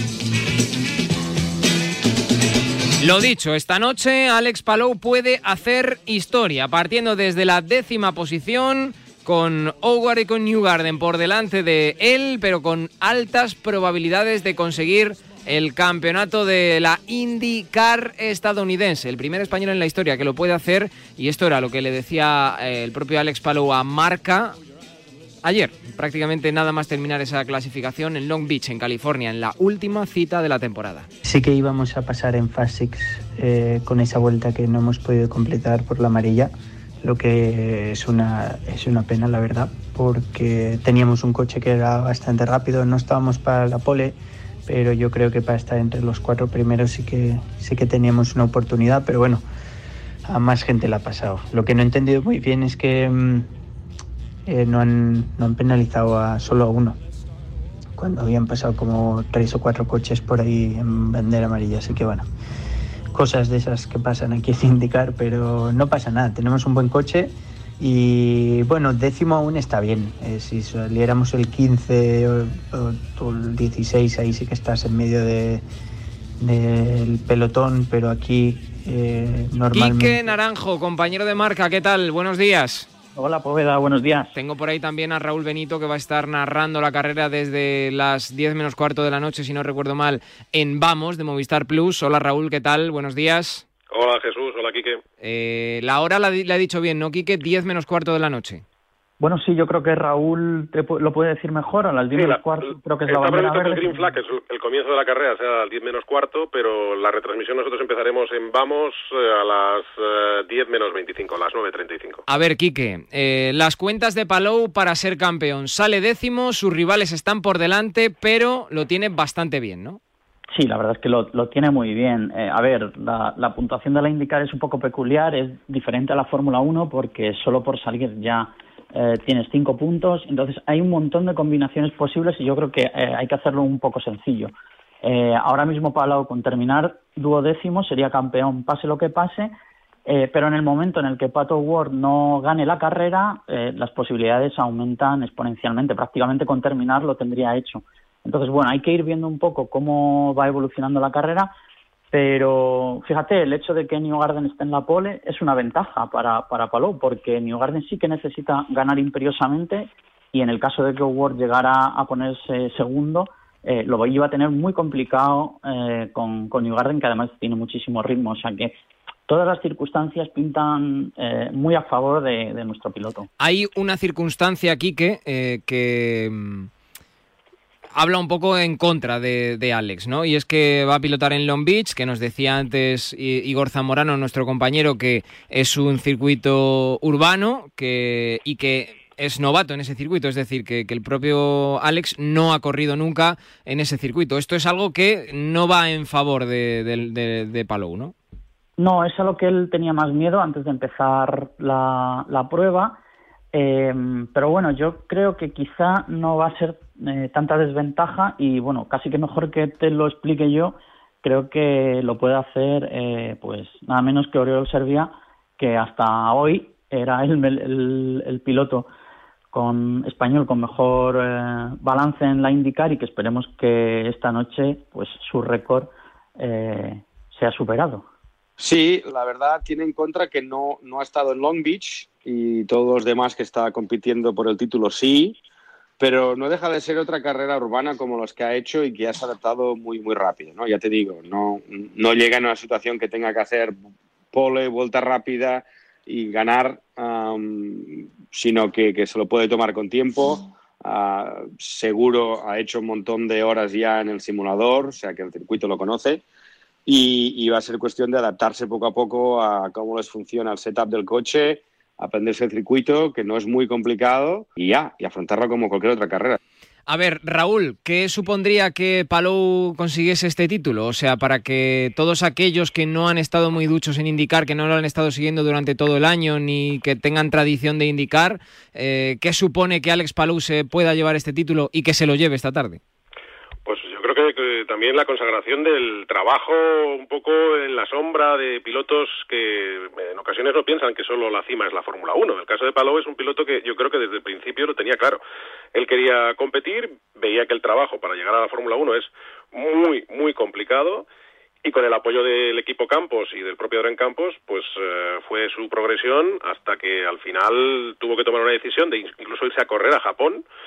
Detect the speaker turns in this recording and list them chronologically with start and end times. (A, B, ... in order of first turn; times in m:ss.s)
0:03.0-0:24.6 A
0:25.4-0:31.1 A
0:31.2-0:49.4 B
0:50.2-0:53.5 B
0:54.4-0:57.0 B
0:58.0-1:02.2 B
1:03.1-1:15.6 B
1:16.4-1:20.3 B
1:19.7-1:22.9 A
1:23.1-1:24.3 C
1:24.3-1:33.6 A
1:33.9-1:35.0 D
1:35.2-1:38.6 A
1:39.2-1:44.1 C
1:42.1-1:52.2 D
1:52.3-2:00.0 A
2:00.5-2:19.5 C
2:20.0-2:31.5 C
2:32.1-2:48.7 C
2:49.3-2:53.3 C
2:53.4-2:56.7 A
2:57.9-3:18.1 A
3:18.8-3:23.0 C
3:23.5-3:38.9 C
3:39.5-3:48.0 C
3:48.6-3:55.4 E
3:56.0-4:03.8 E
4:04.3-4:16.2 E
4:16.8-4:26.4 E
4:26.9-4:42.8 A
4:43.6-4:55.2 D
4:55.7-5:01.0 D
5:01.6-5:10.4 D